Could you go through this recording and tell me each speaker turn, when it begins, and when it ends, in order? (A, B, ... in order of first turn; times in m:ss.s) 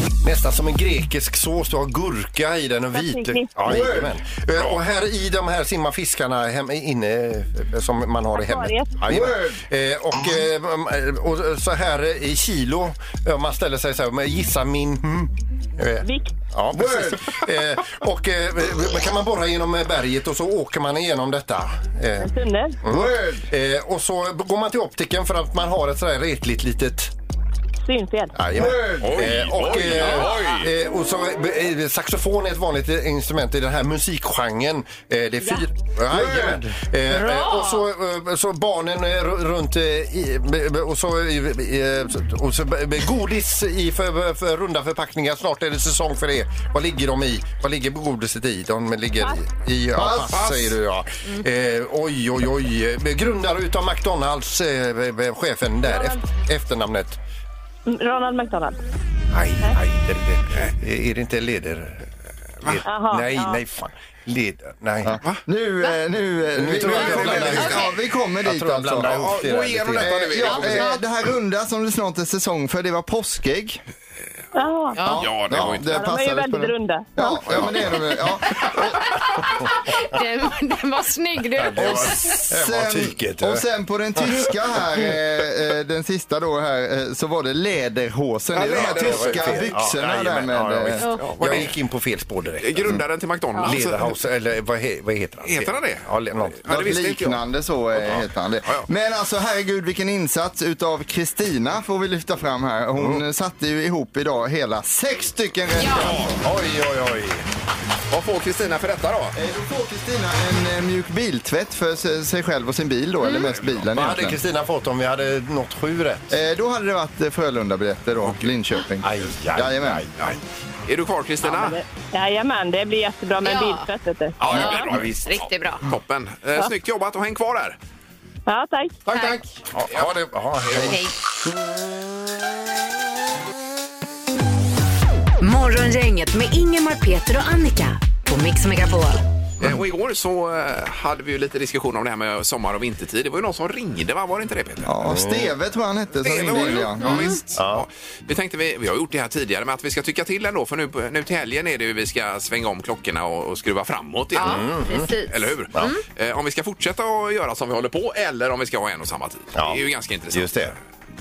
0:00.2-0:27.1 A
0:02.9-0:03.8 B
0:03.6-0:04.1 C
0:04.6-0:04.8 D
0:08.3-0:09.0 B
0:09.1-0:09.6 C
0:16.0-0:16.3 B
0:16.7-0:17.3 C
0:22.2-0:22.8 B
0:22.9-0:23.5 C
0:27.8-0:28.4 B
0:28.3-0:57.2 A
0:28.5-0:29.4 C
0:29.0-0:30.7 D
0:36.1-0:36.6 C
0:37.1-0:37.9 E
0:50.0-0:50.4 C
0:50.3-0:50.7 D
0:55.9-0:56.2 B
0:57.9-0:58.8 B
0:59.3-1:02.1 A
1:02.6-1:05.2 A
1:02.8-1:03.6 B
1:05.0-1:09.2 C
1:06.5-1:10.8 A
1:06.9-1:07.9 D
1:06.9-1:07.9 E
1:09.0-1:10.9 D
1:10.0-1:13.8 C
1:10.5-1:11.0 E
1:14.6-1:15.0 B
1:15.0-1:15.3 E
1:15.0-1:19.3 C
1:15.2-1:15.9 D
1:15.9-1:17.1 B
1:17.5-1:17.9 A
1:18.6-1:22.4 E
1:21.6-1:24.5 A
1:21.8-1:31.0 C
1:28.5-1:29.7 D
1:28.7-1:33.0 A
1:31.0-1:31.3 E
1:31.2-1:31.7 D
1:32.6-1:34.1 D
1:33.6-1:36.6 A
1:35.4-1:36.1 D
1:36.6-1:37.4 D
1:36.7-1:46.4 C
1:38.0-1:38.9 D
1:43.0-1:43.2 A
1:45.8-1:46.2 E
1:46.0-1:46.3 D
1:46.4-1:47.4 A
1:48.1-1:49.4 D
1:49.4-1:54.4 C
1:53.2-1:53.5 E
1:53.9-1:56.4 A
1:56.3-2:00.0 C
1:59.0-2:00.4 A
2:00.2-2:01.8 D
2:01.4-2:04.9 B
2:03.4-2:03.9 E
2:04.4-2:07.8 D
2:04.4-2:05.8 E
2:04.6-2:05.1 A
2:08.5-2:09.0 B
2:09.1-2:11.0 D
2:09.1-2:09.4 E
2:09.7-2:11.0 A
2:15.4-2:19.2 F
2:19.6-2:24.9 D
2:24.8-2:27.3 C
2:25.0-2:25.6 A
2:26.2-2:34.7 D
2:27.0-2:27.4 E
2:27.5-2:27.9 A
2:34.4-2:36.0 E
2:34.4-2:35.1 A
2:35.3-2:40.6 D
2:39.5-2:40.8 A